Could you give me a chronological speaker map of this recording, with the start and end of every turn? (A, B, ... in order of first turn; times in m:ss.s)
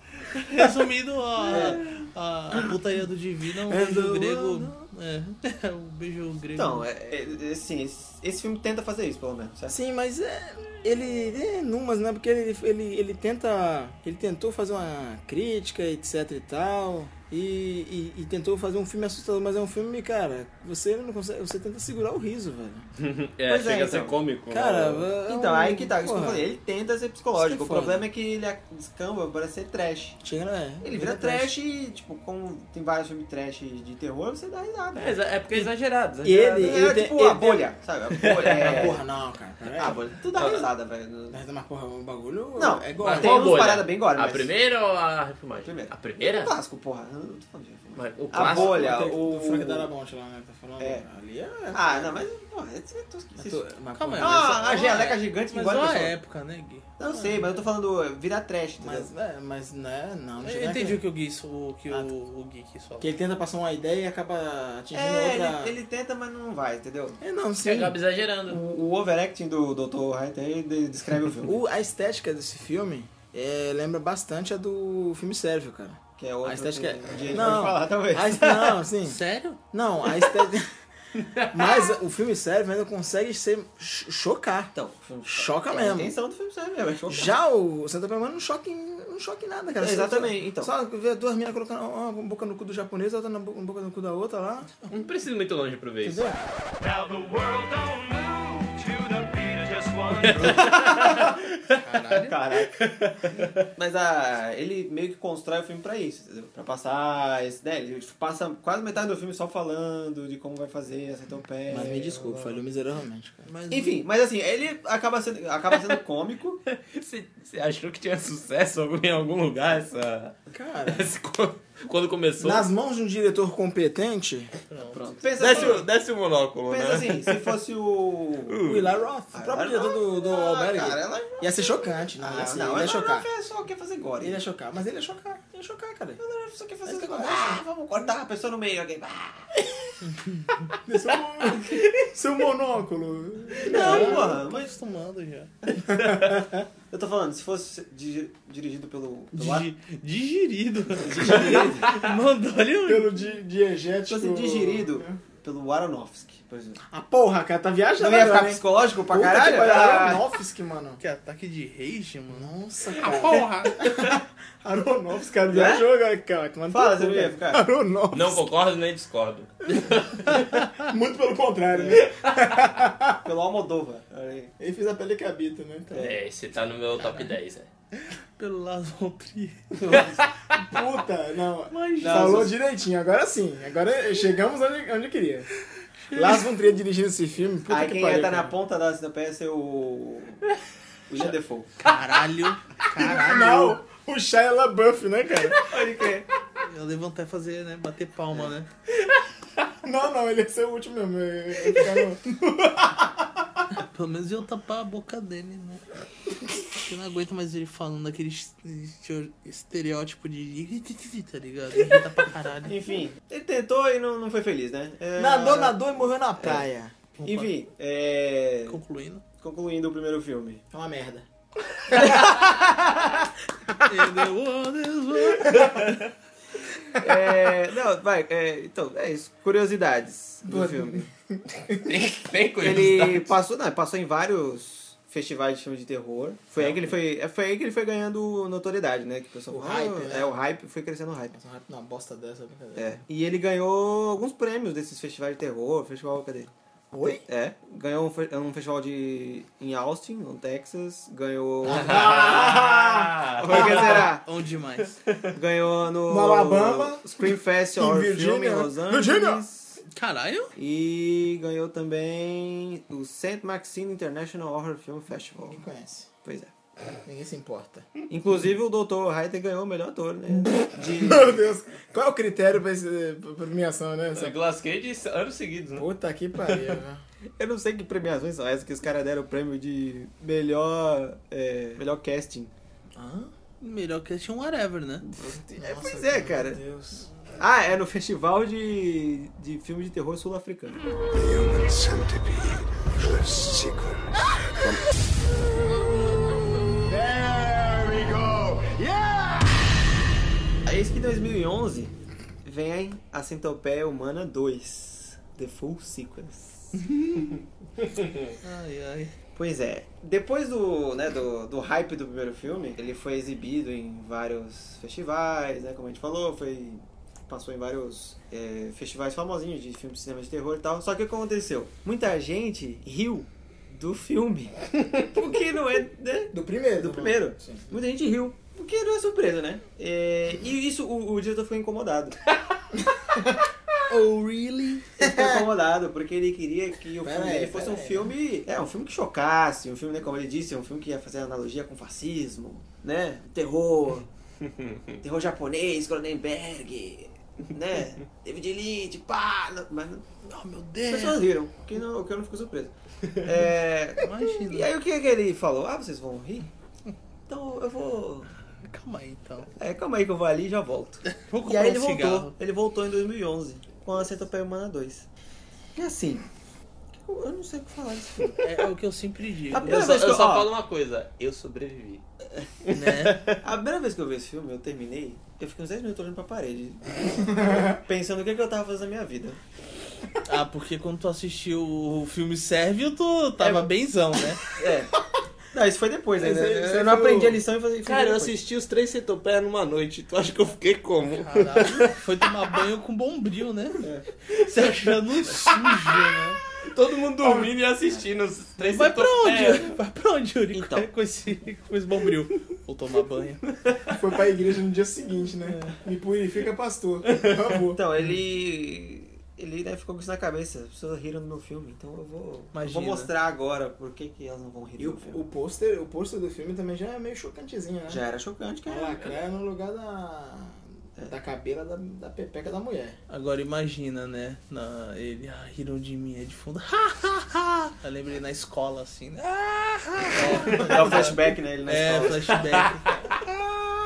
0:00.2-0:06.8 A
0:01.4-0:01.9 B
0:03.7-0:04.7 C
0:06.5-0:09.8 B
0:09.7-0:22.9 C
0:23.0-0:25.1 D
0:23.5-0:24.2 B
0:24.5-0:26.5 C
0:25.3-0:30.2 B
0:27.4-0:28.1 C
0:30.2-0:31.5 C
0:30.8-0:35.2 B
0:34.9-0:36.8 D
0:36.2-0:37.7 C
0:36.6-0:39.0 B
0:38.2-0:38.9 D
0:38.4-0:40.6 C
0:39.8-0:41.4 B
0:41.3-0:43.7 C
0:42.6-0:44.5 B
0:43.0-0:46.6 D
0:45.6-0:49.9 B
0:47.9-0:48.9 D
0:48.3-0:52.2 C
0:50.8-0:51.0 B
0:51.7-0:53.6 B
0:53.4-0:54.6 C
0:53.9-0:56.9 A
0:54.2-0:56.1 B
0:57.0-0:59.1 B
0:57.0-0:57.6 C
0:58.8-1:01.0 C
1:00.4-1:03.1 A
1:03.0-1:05.8 C
1:04.9-1:07.2 B
1:07.2-1:08.0 C
1:07.6-1:08.6 D
1:08.5-1:11.6 B
1:11.4-1:19.2 C
1:16.2-1:18.8 B
1:19.0-1:19.6 A
1:19.7-1:20.7 C
1:21.2-1:21.9 D
1:21.5-1:24.7 C
1:24.7-1:27.3 B
1:25.2-1:26.1 C
1:27.1-1:34.7 C
1:29.8-1:30.7 B
1:34.9-1:36.3 D
1:36.0-1:36.4 C
1:36.8-1:40.3 E
1:40.1-1:41.4 D
1:40.3-1:41.4 B
1:41.8-1:42.3 A
1:42.1-1:42.8 B
1:42.7-1:43.6 D
1:43.8-1:52.6 B
1:51.7-1:53.5 C
1:53.5-1:54.0 A
1:53.7-1:56.6 B
1:55.7-1:56.0 D
1:56.7-2:00.4 D
2:00.5-2:01.1 C
2:00.9-2:02.7 D
2:02.4-2:04.5 C
2:04.7-2:05.4 A
2:04.9-2:05.9 B
2:05.4-2:07.6 D
2:06.7-2:08.6 B
2:08.5-2:08.9 D
2:08.6-2:13.3 C
2:09.3-2:14.4 B
2:14.2-2:16.2 C
2:16.2-2:19.6 B
2:16.9-2:17.4 A
2:17.2-2:17.6 C
2:20.0-2:20.6 A
2:20.8-2:24.4 C
2:23.6-2:24.7 B
2:23.6-2:25.5 A
2:25.7-2:26.4 B
2:25.9-2:26.4 C
2:26.9-2:29.7 B
2:29.3-2:33.3 A
2:31.0-2:32.0 B
2:32.8-2:35.2 C
2:34.1-2:36.8 B
2:36.9-2:41.0 C
2:38.0-2:40.2 B
2:41.0-2:43.8 A
2:42.3-2:48.4 C
2:45.5-2:45.8 B
2:46.7-2:47.6 B
2:48.1-2:50.4 D
2:50.2-2:53.2 C
2:51.7-2:52.0 B
2:53.2-2:54.5 B
2:54.6-2:56.1 C
2:55.9-2:56.2 B
2:55.9-2:57.7 D
2:58.4-2:59.8 A
2:59.7-3:00.3 B
3:00.6-3:05.5 C
3:01.7-3:02.4 A
3:02.0-3:02.5 B
3:06.0-3:06.5 A
3:06.1-3:08.6 C
3:07.7-3:10.4 B
3:11.1-3:11.7 B
3:11.8-3:13.8 A
3:13.0-3:15.6 C
3:13.1-3:13.5 B
3:15.6-3:16.3 B
3:16.6-3:18.7 A
3:19.8-3:23.6 C
3:23.7-3:25.8 A
3:26.7-3:32.8 A
3:32.6-3:36.6 B
3:35.2-3:37.0 C
3:37.2-3:37.5 A
3:37.2-3:38.8 B
3:38.6-3:39.2 A
3:39.4-3:40.6 B
3:40.7-3:41.2 C
3:41.9-3:42.4 C
3:41.9-3:42.9 B
3:43.8-3:45.7 A
3:47.0-3:51.1 B
3:50.4-3:51.9 C
3:51.8-3:53.3 D
3:52.6-4:01.4 B
3:59.5-4:00.4 C
4:01.3-4:03.0 C
4:02.8-4:06.5 B
4:06.9-4:07.2 C
4:07.0-4:12.6 B
4:11.6-4:13.9 C
4:11.7-4:13.9 D
4:13.4-4:14.2 B
4:13.5-4:15.0 A
4:15.3-4:19.8 B
4:16.1-4:19.4 C
4:19.9-4:20.5 A
4:20.6-4:25.6 B
4:25.5-4:26.1 C
4:26.2-4:26.5 B
4:27.0-4:27.9 C
4:28.1-4:31.4 B
4:31.0-4:34.4 C
4:34.1-4:35.9 D
4:35.7-4:37.0 C
4:37.4-4:42.5 B
4:42.9-4:43.3 C
4:43.6-4:45.0 A
4:45.0-4:46.6 B
4:45.2-4:47.1 C
4:47.4-4:50.8 B
4:51.1-4:54.8 F
4:56.8-4:59.8 C
5:00.6-5:01.9 B
5:02.4-5:06.8 B
5:06.8-5:07.3 A
5:08.4-5:09.1 A
5:09.3-5:32.2 B
5:26.3-5:27.8 C
5:33.9-5:34.9 A
5:35.0-5:35.5 C
5:35.0-5:44.1 B
5:37.0-5:38.1 C
5:45.0-5:50.0 B
5:50.2-5:51.2 A
5:50.8-5:56.5 B
5:54.0-5:54.7 A
5:57.3-5:58.3 B
5:58.6-5:59.5 A
5:59.6-6:05.1 B
6:01.1-6:02.3 A
6:05.8-6:06.3 B
6:07.0-6:08.4 B
6:08.4-6:09.8 A
6:09.5-6:10.5 B
6:09.6-6:12.0 D
6:12.6-6:13.4 D
6:12.7-6:13.3 A
6:13.4-6:19.4 B
6:17.4-6:17.7 C
6:20.2-6:24.4 A
6:23.4-6:23.7 B
6:24.5-6:24.9 B
6:25.5-6:28.4 B
6:26.2-6:27.4 C
6:27.8-6:32.0 D
6:31.1-6:33.8 A
6:33.8-6:34.0 B
6:34.5-6:36.4 A
6:35.4-6:35.7 D
6:36.6-6:39.7 D
6:38.6-6:43.4 A
6:40.5-6:40.9 B
6:43.9-6:47.8 C
6:45.5-6:45.7 A
6:47.7-6:55.2 B
6:52.5-6:53.1 A
6:54.8-6:58.0 C
6:57.9-6:59.2 B
6:58.6-7:03.0 C
7:03.1-7:13.1 A
7:10.1-7:12.6 B